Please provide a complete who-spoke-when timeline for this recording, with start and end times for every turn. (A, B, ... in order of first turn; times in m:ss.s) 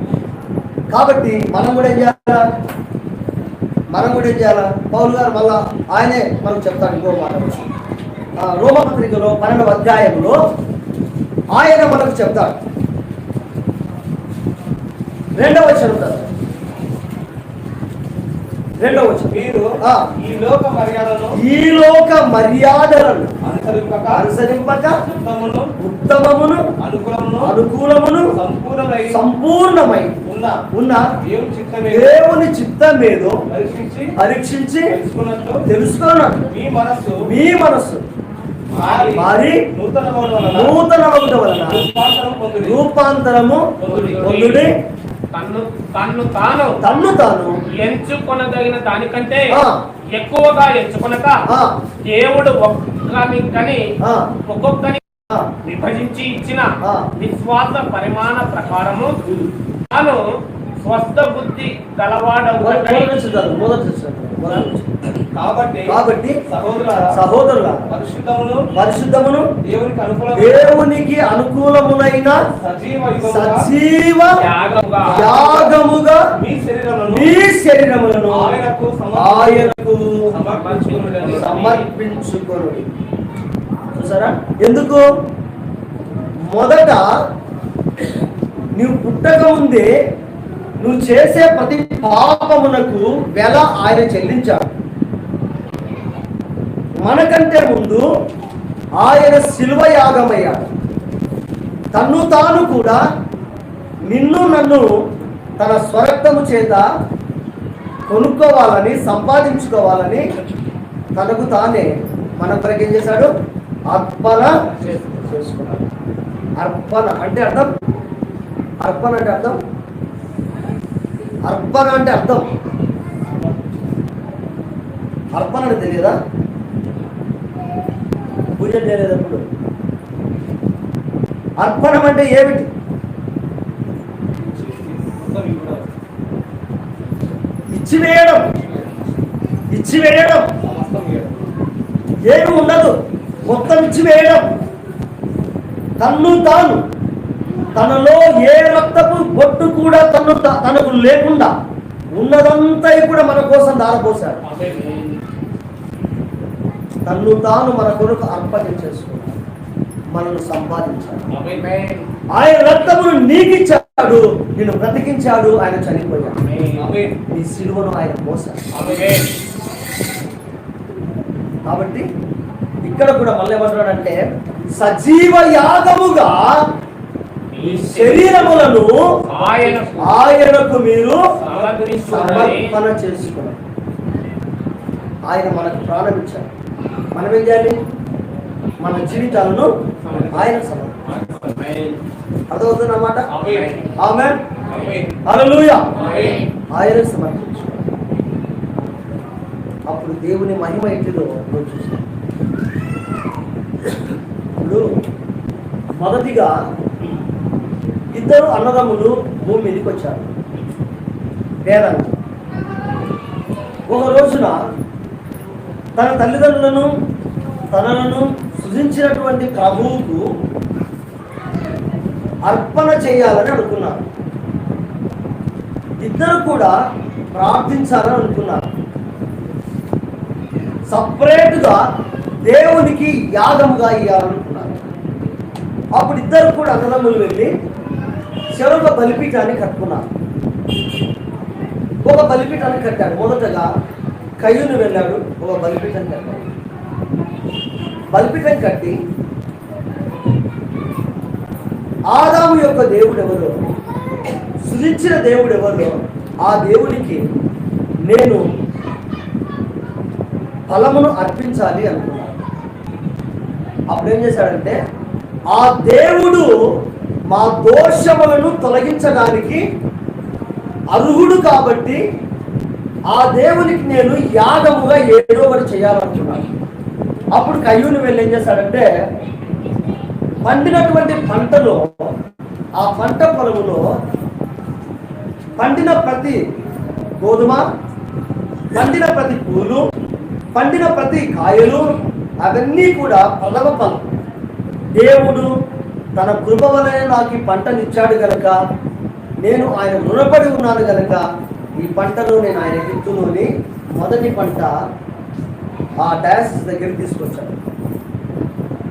0:00.9-0:02.4 A
0:03.9-0:07.6 A
0:08.4-0:10.4 A
0:11.5-0:12.6 A
0:15.3-0:16.3 A
0:18.8-0:20.1 A
0:19.1-0:21.4 B
0:21.3-0:23.4 A
0:23.4-0:24.2 B
0:24.1-0:25.0 A
0:25.0-0:25.7 B
0:25.8-0:26.7 A
0:26.8-0:27.5 B
0:27.4-0:28.3 A
0:28.3-0:29.2 B
0:29.1-0:30.1 A
0:30.2-0:30.6 B
0:30.7-0:31.1 A
0:31.2-0:32.2 B
0:31.9-0:33.4 A
0:33.5-0:34.1 B
0:34.1-0:34.9 A
0:34.9-0:35.6 B
0:35.6-0:36.4 A
0:36.4-0:37.3 B
0:37.2-0:38.0 A
0:38.7-0:40.8 B
0:38.9-0:39.7 A
0:40.4-0:41.8 A
0:41.6-0:42.8 B
0:42.6-0:44.7 A
0:43.8-0:44.7 C
0:45.3-0:46.8 C
0:46.8-0:47.6 A
0:47.7-0:49.6 C
0:49.5-0:49.8 A
0:50.1-0:51.4 C
0:51.5-0:51.7 A
0:52.0-0:53.9 C
0:54.0-0:54.3 A
0:54.4-0:55.0 C
0:55.6-0:59.2 C
0:56.8-0:57.1 A
0:59.2-0:59.5 A
0:59.9-1:03.1 C
1:02.6-1:04.9 A
1:05.3-1:07.2 B
1:05.8-1:06.4 A
1:07.1-1:07.9 A
1:07.9-1:08.7 B
1:08.7-1:09.5 A
1:09.6-1:10.7 B
1:10.3-1:12.4 A
1:12.6-1:13.7 B
1:13.2-1:14.5 A
1:14.4-1:15.2 C
1:15.0-1:15.8 B
1:15.1-1:16.3 A
1:16.3-1:17.4 B
1:17.1-1:18.6 A
1:18.3-1:19.8 B
1:19.1-1:20.3 A
1:20.3-1:21.7 B
1:20.4-1:21.8 C
1:21.2-1:22.9 A
1:23.9-1:25.0 A
1:26.5-1:27.1 A
1:28.8-1:29.9 A
1:30.8-1:34.6 A
1:37.0-1:38.1 A
1:39.0-1:40.7 A
1:41.9-1:43.0 A
1:44.1-1:45.0 A
1:45.6-1:46.8 A
1:48.1-1:50.3 A
1:51.1-1:53.3 A
1:53.9-1:55.8 A
1:56.6-1:57.7 A
1:58.8-1:59.6 A
2:01.4-2:02.5 A
2:05.3-2:06.2 A
2:08.6-2:09.5 A
2:11.6-2:12.7 A
2:14.4-2:15.9 B
2:17.7-2:18.5 A
2:19.7-2:20.5 A
2:20.6-2:21.5 B
2:22.2-2:24.5 A
2:26.0-2:26.8 A
2:27.7-2:31.5 A
2:32.1-2:34.4 A
2:34.4-2:34.9 B
2:34.8-2:35.1 C
2:37.0-2:39.4 A
2:40.1-2:41.3 A
2:41.3-2:41.7 B
2:41.6-2:42.1 C
2:42.3-2:46.4 A
2:46.4-2:46.8 C
2:46.8-2:47.2 B
2:47.3-2:48.7 A
2:48.7-2:49.2 B
2:48.8-2:49.3 C
2:51.6-2:52.0 A
2:52.8-2:54.2 A
2:54.7-2:56.6 A
2:57.5-2:58.5 C
2:57.6-2:59.0 A
2:59.3-3:00.1 B
2:59.3-3:00.2 C
3:00.0-3:01.2 A
3:01.4-3:02.5 B
3:01.4-3:02.8 C
3:02.0-3:03.6 A
3:05.2-3:06.5 A
3:07.1-3:07.8 A
3:08.8-3:11.0 A
3:10.0-3:11.8 B
3:12.5-3:13.3 A
3:13.3-3:13.8 B
3:14.0-3:14.4 A
3:14.7-3:15.2 B
3:15.2-3:15.9 A
3:15.9-3:16.4 B
3:16.7-3:17.8 A
3:19.9-3:22.0 A
3:24.6-3:24.9 A
3:26.0-3:26.5 A
3:28.1-3:30.3 A
3:31.6-3:32.1 A
3:33.9-3:34.6 A
3:36.0-3:36.9 A
3:37.7-3:40.2 A
3:42.4-3:44.0 A
3:46.0-3:46.8 A
3:47.3-3:48.6 A
3:50.9-3:51.8 A
3:52.4-3:54.9 A
3:55.9-3:57.5 A
3:58.5-4:00.0 A
4:02.0-4:03.7 A
4:04.4-4:06.5 A
4:08.1-4:09.0 A
4:12.1-4:13.7 A
4:14.6-4:17.2 A
4:18.0-4:18.4 A
4:20.7-4:22.3 A
4:23.9-4:24.8 A
4:25.5-4:26.5 A
4:27.3-4:29.6 A
4:30.9-4:32.0 A
4:33.1-4:36.5 A
4:37.3-4:38.9 A
4:40.4-4:42.1 A
4:42.8-4:43.9 A
4:45.6-4:46.4 A
4:47.2-4:47.6 A
4:48.7-4:49.8 A
4:50.5-4:54.1 A
4:55.0-4:55.5 A
4:56.2-4:58.6 A
4:59.4-5:01.2 A
5:01.8-5:04.8 A
5:06.0-5:07.6 A